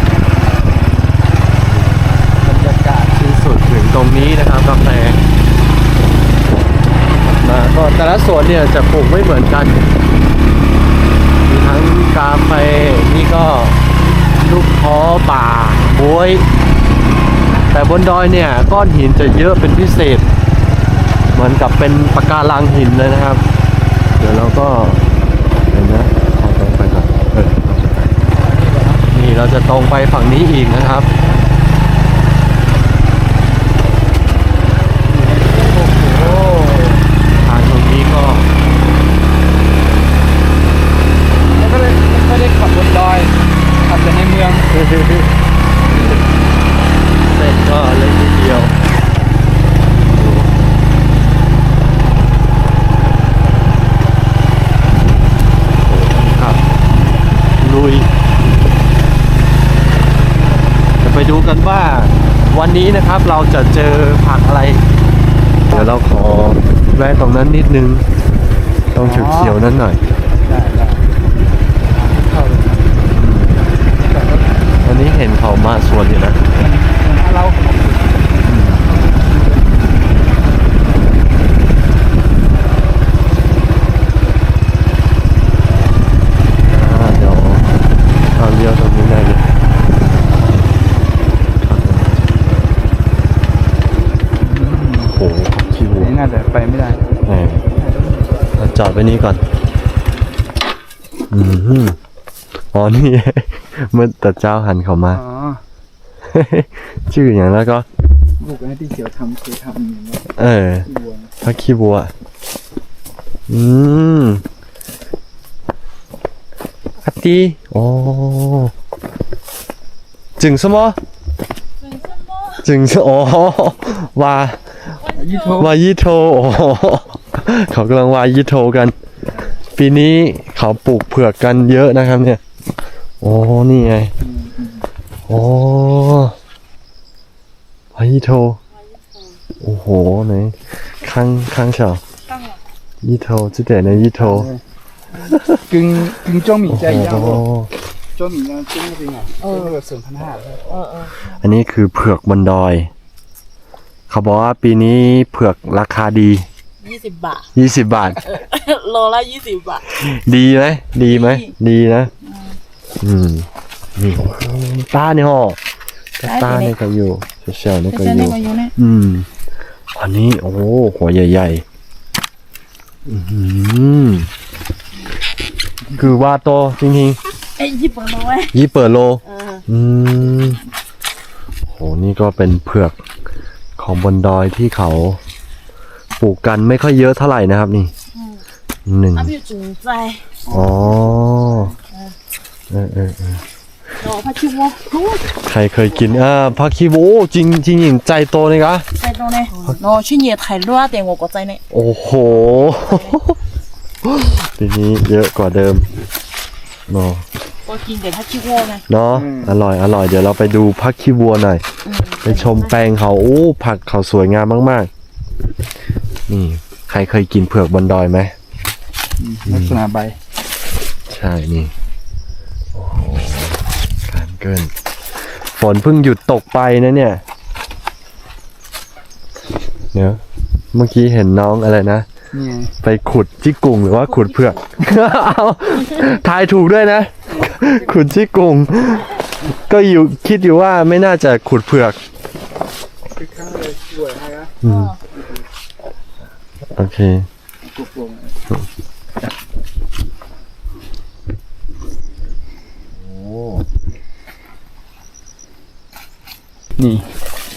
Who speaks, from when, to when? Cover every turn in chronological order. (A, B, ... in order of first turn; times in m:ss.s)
0:02.4-0:05.2 A
0:07.2-0:09.9 A
0:11.4-0:13.8 A
0:14.3-0:16.5 A
0:17.7-0:20.3 A
0:21.3-0:23.4 A
0:24.2-0:25.0 A
0:25.7-0:28.1 A
0:28.3-0:29.0 B
0:29.1-0:31.1 A
0:35.1-0:37.1 B
0:37.4-0:38.5 A
0:41.5-0:44.7 B
0:44.7-0:45.3 A
0:45.9-0:46.2 A
0:47.2-0:48.8 A
0:50.0-0:50.5 A
0:55.8-0:56.6 A
0:57.6-0:58.1 A
1:01.0-1:04.8 A
1:05.7-1:08.1 A
1:08.9-1:10.0 A
1:09.0-1:09.6 B
1:10.4-1:11.1 B
1:11.9-1:13.1 B
1:13.1-1:13.6 A
1:13.9-1:14.7 B
1:14.8-1:16.4 A
1:16.5-1:19.9 B
1:18.4-1:18.8 A
1:26.7-1:27.7 A
1:28.3-1:29.5 A
1:31.6-1:32.4 A
1:34.4-1:35.2 B
1:35.1-1:36.2 A
1:36.0-1:38.5 B
1:37.2-1:37.6 A
1:38.6-1:39.4 A
1:41.3-1:42.0 A
1:42.7-1:45.2 A
1:45.1-1:45.6 B
1:46.2-1:47.8 A
1:48.4-1:51.3 B
1:50.4-1:50.9 A
1:51.4-1:52.1 A
1:53.5-1:54.4 A
1:57.0-1:58.7 A
2:00.4-2:01.0 A
2:02.0-2:02.4 C
2:02.6-2:08.9 A
2:05.0-2:05.7 B
2:09.6-2:12.4 A
2:13.2-2:14.1 A
2:14.2-2:14.9 B
2:15.3-2:16.4 A
2:17.9-2:18.6 A
2:19.6-2:22.0 A
2:23.0-2:24.5 A
2:23.9-2:24.6 B
2:25.7-2:27.4 B
2:26.7-2:27.7 A
2:28.1-2:30.6 B
2:29.4-2:29.7 C
2:30.7-2:31.1 C
2:31.2-2:32.9 A
2:34.1-2:36.5 A
2:36.8-2:37.5 C
2:37.5-2:38.3 A
2:38.2-2:39.9 C
2:39.9-2:42.1 A
2:41.1-2:41.5 C
2:42.3-2:42.6 C
2:43.0-2:45.6 A
2:46.2-2:49.3 A
2:46.2-2:46.7 C
2:47.9-2:48.7 C
2:49.9-2:51.6 A
2:53.1-2:54.3 A
2:55.9-2:57.2 A
2:57.6-2:58.5 C
2:58.5-3:00.6 A
2:59.3-2:59.6 C
3:01.7-3:03.0 A
3:03.8-3:05.2 A
3:06.2-3:07.9 A
3:08.8-3:09.3 A
3:09.1-3:10.3 C
3:10.4-3:11.8 B
3:10.5-3:11.7 A
3:12.7-3:13.4 A
3:14.0-3:15.0 C
3:15.2-3:18.9 A
3:19.0-3:21.6 C
3:21.7-3:23.4 A
3:24.0-3:25.9 A
3:26.9-3:27.2 A
3:27.6-3:28.8 C
3:28.9-3:31.6 A
3:29.1-3:29.6 B
3:31.8-3:32.7 C
3:32.2-3:34.9 A
3:36.3-3:38.3 A
3:39.2-3:40.2 B
3:39.4-3:39.8 A
3:41.1-3:41.7 A
3:42.7-3:47.2 A
3:49.9-3:50.2 A
3:50.7-3:52.1 A
3:52.3-3:52.7 B
3:52.8-4:02.0 A
4:03.2-4:04.6 B
4:04.6-4:05.0 A
4:05.1-4:05.4 B
4:06.7-4:07.3 A
4:07.6-4:08.4 B
4:13.0-4:13.7 A
4:16.8-4:17.1 B